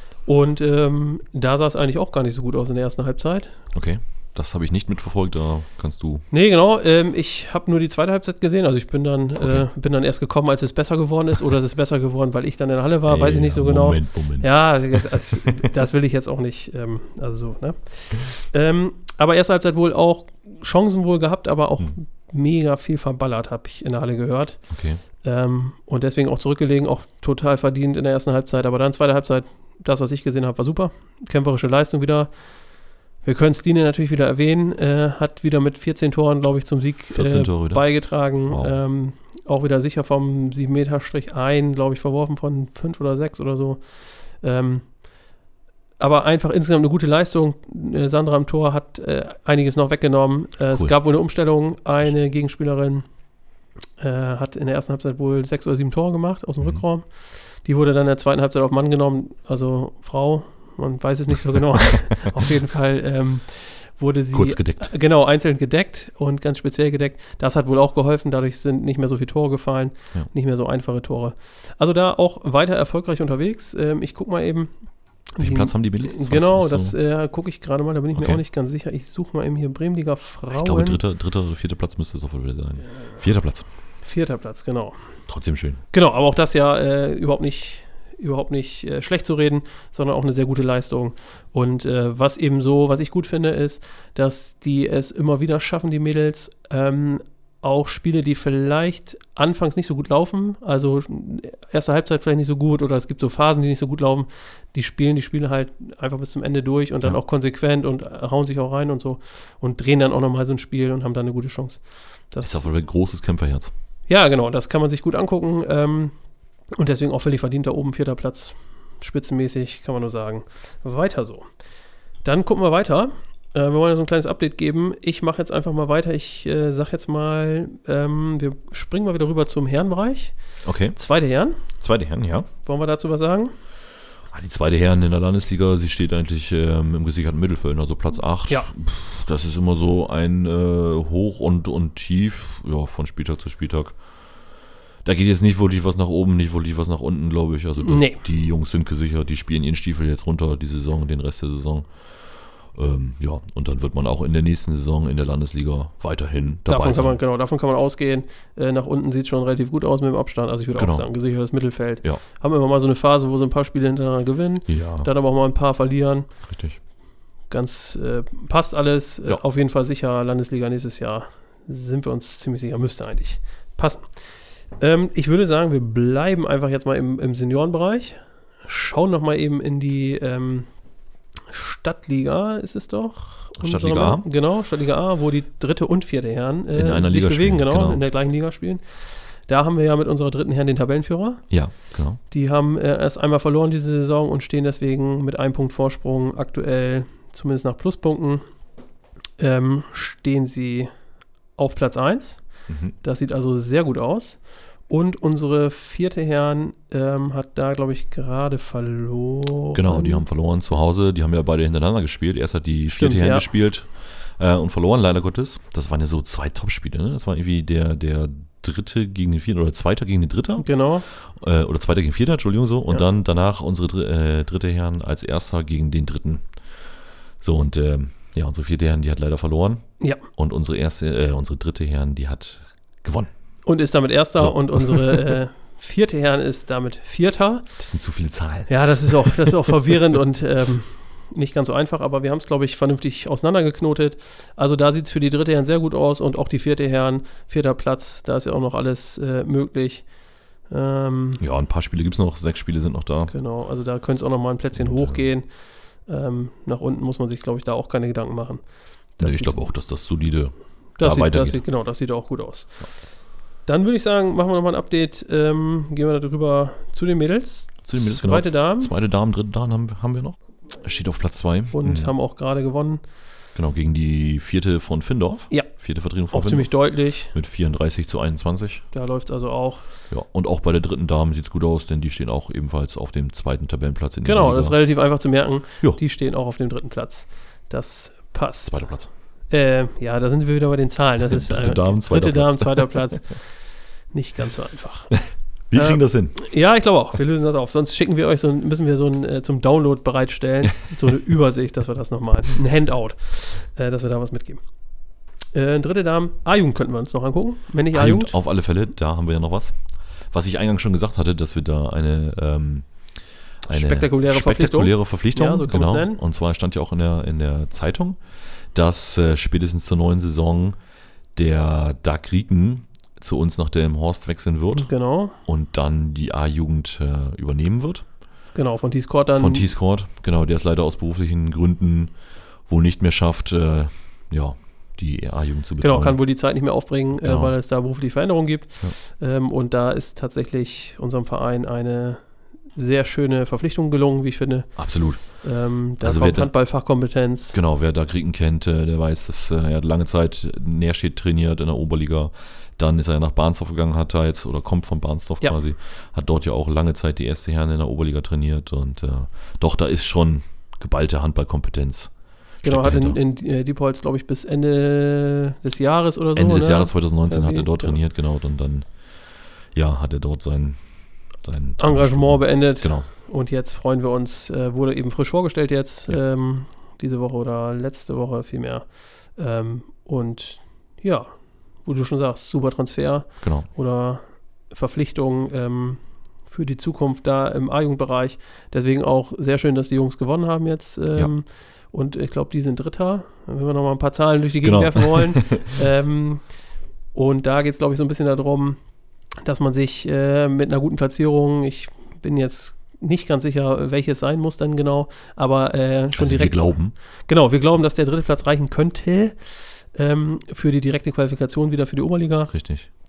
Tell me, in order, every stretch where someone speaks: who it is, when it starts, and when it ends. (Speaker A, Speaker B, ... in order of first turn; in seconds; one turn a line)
Speaker A: 0.2-3.5
Speaker B: 3.7-6.2
Speaker A: 6.3-24.6
Speaker B: 9.4-9.7
Speaker B: 13.1-15.1
Speaker B: 24.7-25.0
Speaker A: 25.1-32.3
Speaker A: 33.2-45.0
Speaker B: 37.1-38.8
Speaker A: 46.0-53.0
Speaker B: 50.7-51.1
Speaker A: 54.0-74.7
Speaker B: 64.3-64.9
Speaker A: 75.3-81.0
Speaker B: 75.4-77.0
Speaker B: 78.2-78.4
Speaker B: 80.5-83.7
Speaker A: 84.0-85.0
Speaker B: 85.3-85.8
Speaker A: 85.9-111.8
Speaker A: 112.3-112.7
Speaker B: 112.4-113.7
Speaker A: 114.1-116.1
Speaker A: 116.8-121.5
Speaker A: 122.2-130.3
Speaker B: 130.7-131.0
Speaker A: 130.9-131.6
Speaker B: 131.8-132.5
Speaker A: 132.6-133.5
Speaker B: 134.3-144.0
Speaker B: 145.1-157.2
Speaker A: 147.8-148.2
Speaker A: 156.7-166.3
Speaker B: 160.8-161.1
Speaker B: 164.7-165.1
Speaker B: 166.5-166.8
Speaker A: 167.5-174.1
Speaker A: 174.8-180.7
Speaker A: 181.5-188.8
Speaker B: 183.6-184.3
Speaker B: 186.7-188.0
Speaker A: 189.5-191.4
Speaker B: 191.5-192.2
Speaker A: 192.3-198.4
Speaker A: 199.4-200.9
Speaker A: 201.6-202.4
Speaker B: 202.7-202.9
Speaker A: 203.0-210.2
Speaker B: 209.8-226.4
Speaker A: 212.9-213.5
Speaker A: 220.6-221.1
Speaker B: 227.4-229.8
Speaker A: 230.0-230.2
Speaker B: 230.3-233.3
Speaker A: 233.7-237.7
Speaker B: 234.4-235.4
Speaker B: 237.8-239.8
Speaker A: 238.7-250.1
Speaker A: 250.7-251.4
Speaker B: 251.4-253.3
Speaker A: 253.3-255.5
Speaker B: 254.8-255.3
Speaker A: 256.1-258.6
Speaker A: 259.2-259.7
Speaker B: 259.2-261.6
Speaker A: 261.0-262.8
Speaker A: 263.7-268.9
Speaker B: 267.9-272.1
Speaker A: 271.7-273.0
Speaker B: 273.6-278.8
Speaker A: 276.3-277.3
Speaker A: 278.9-279.8
Speaker B: 280.1-284.8
Speaker A: 284.2-288.9
Speaker B: 288.7-289.1
Speaker A: 289.5-293.4
Speaker B: 291.2-293.0
Speaker A: 294.1-295.2
Speaker B: 295.1-296.4
Speaker A: 295.8-304.6
Speaker A: 305.5-308.4
Speaker B: 307.9-309.8
Speaker B: 310.3-312.9
Speaker A: 313.7-316.2
Speaker B: 313.7-318.2
Speaker B: 318.7-320.8
Speaker B: 321.4-324.9
Speaker A: 324.7-325.4
Speaker B: 325.5-328.0
Speaker A: 328.5-329.7
Speaker B: 329.4-332.1
Speaker B: 332.7-336.2
Speaker A: 335.8-347.6
Speaker B: 337.1-337.6
Speaker B: 344.8-346.6
Speaker B: 347.5-362.1
Speaker A: 362.6-368.0
Speaker B: 362.6-363.2
Speaker B: 366.4-368.9
Speaker B: 369.7-370.8
Speaker B: 371.4-373.1
Speaker A: 371.8-396.4
Speaker B: 383.4-383.7
Speaker B: 394.6-395.8
Speaker A: 397.1-398.8
Speaker A: 399.4-412.5
Speaker B: 406.2-406.9
Speaker B: 412.5-412.9